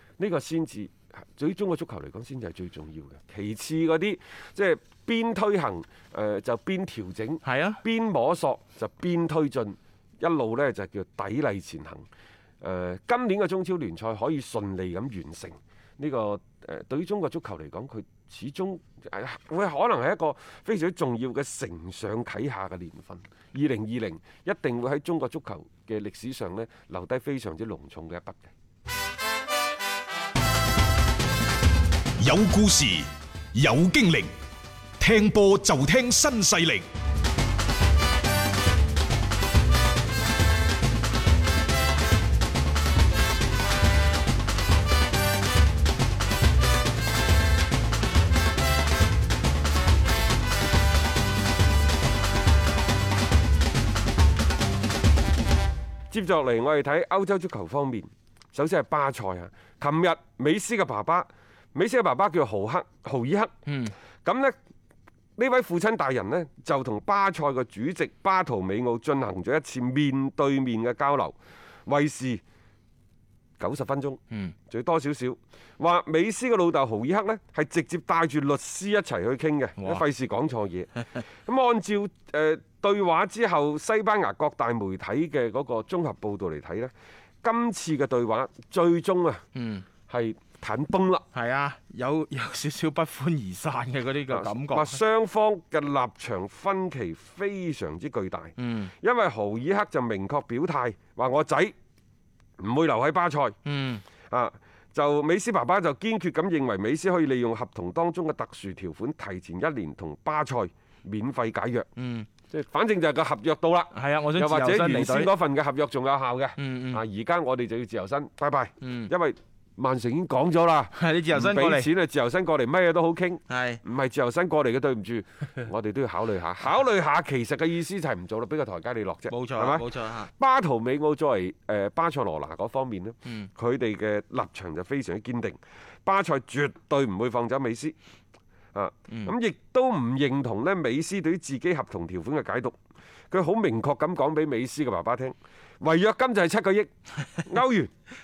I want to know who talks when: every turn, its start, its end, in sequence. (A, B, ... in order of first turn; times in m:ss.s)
0:00.2-0:12.1 A
0:07.4-0:07.8 B
0:12.6-0:28.5 A
0:32.2-0:34.3 C
0:35.0-0:36.9 C
0:56.1-1:03.6 A
1:03.7-1:03.9 B
1:04.2-1:04.6 A
1:05.4-1:12.4 A
1:13.6-1:26.9 A
1:19.8-1:20.0 B
1:27.4-1:29.4 A
1:29.6-1:29.9 B
1:30.1-1:31.2 A
1:31.3-1:35.0 B
1:34.3-1:41.7 A
1:38.6-1:38.9 B
1:42.6-1:43.6 A
1:43.6-1:44.0 B
1:44.3-1:51.9 A
1:52.0-1:52.3 B
1:52.4-2:18.0 A
1:53.9-1:55.3 B
1:56.6-1:57.0 B
1:58.8-1:59.1 B
2:00.9-2:01.9 B
2:03.5-2:03.8 B
2:09.3-2:10.3 B
2:18.7-2:22.8 A
2:23.3-2:26.9 A
2:27.4-2:27.9 A